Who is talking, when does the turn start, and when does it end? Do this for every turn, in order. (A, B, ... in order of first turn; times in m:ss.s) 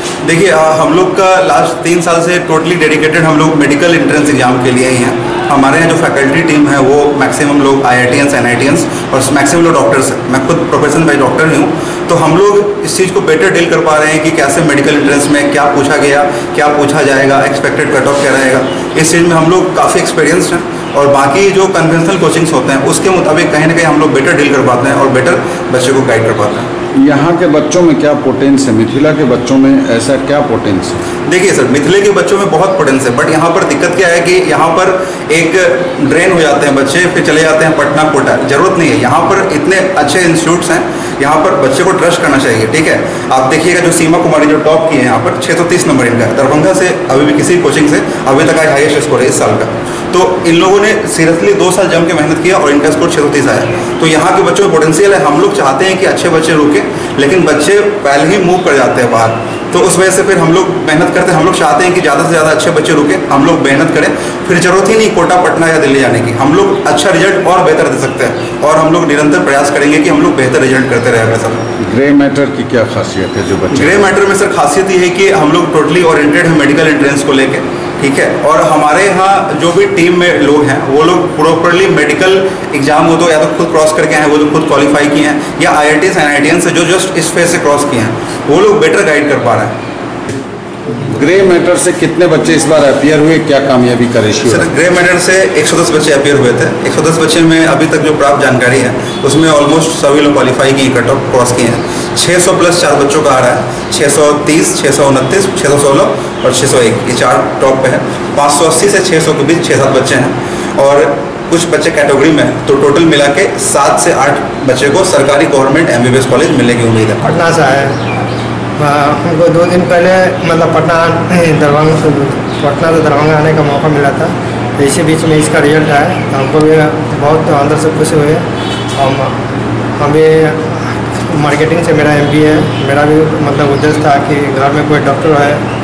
0:00.2-0:26.7 A
0:27.0-0:31.0 B
0:31.2-1:11.7 A
1:11.8-1:14.0 B
1:13.7-1:29.8 A
1:31.1-1:34.7 B
1:34.5-1:57.2 A
1:57.2-1:58.0 C
1:58.8-2:15.6 C